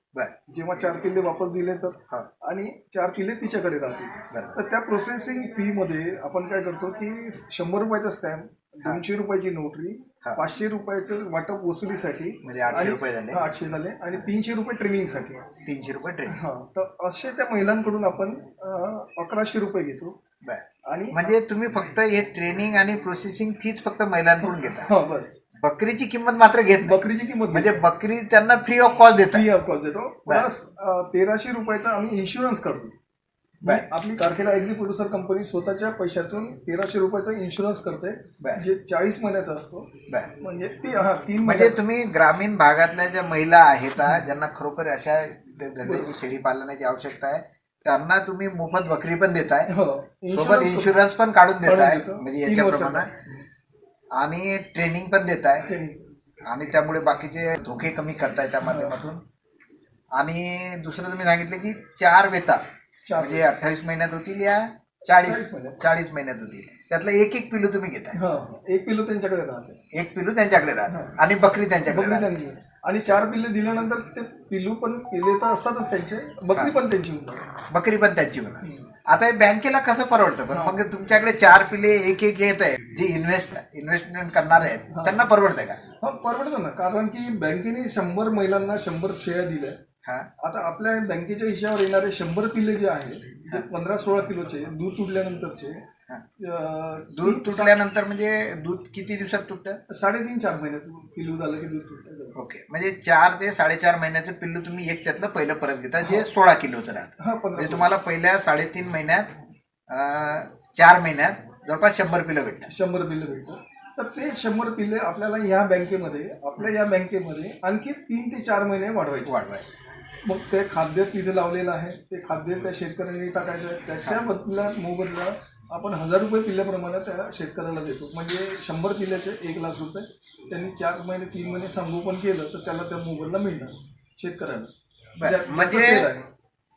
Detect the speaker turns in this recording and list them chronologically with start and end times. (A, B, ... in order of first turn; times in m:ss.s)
0:00.5-0:15.4 A
0:04.3-0:04.6 B
0:12.4-0:13.4 B
0:15.6-0:16.4 B
0:16.3-0:20.2 A
0:20.4-0:24.9 B
0:20.8-0:21.2 A
0:24.4-0:25.4 A
0:25.5-0:29.5 B
0:26.8-0:27.8 A
0:29.3-0:32.9 A
0:33.6-0:33.9 B
0:33.6-0:41.8 A
0:41.4-0:49.7 B
0:45.8-0:46.2 A
0:49.7-0:50.9 A
0:50.3-0:53.1 B
0:51.6-0:53.3 A
0:54.2-0:55.7 B
0:55.6-0:56.1 A
0:56.4-0:59.2 B
0:58.6-0:59.0 A
1:00.1-1:02.6 B
1:03.1-1:03.5 A
1:03.2-1:08.2 B
1:05.2-1:05.8 A
1:08.1-1:09.8 A
1:09.9-1:12.4 B
1:10.9-1:11.1 A
1:11.9-1:17.5 A
1:17.7-1:25.8 B
1:18.6-1:18.9 A
1:20.5-1:20.8 A
1:24.9-1:25.2 A
1:26.0-1:29.8 A
1:30.4-1:35.8 A
1:36.4-1:37.8 A
1:37.1-1:39.8 B
1:39.9-1:42.4 A
1:42.3-1:49.3 B
1:47.2-1:47.9 A
1:49.9-1:52.7 B
1:52.7-1:59.3 A
1:59.2-1:59.7 B
2:00.2-2:16.3 A
2:15.2-2:16.1 B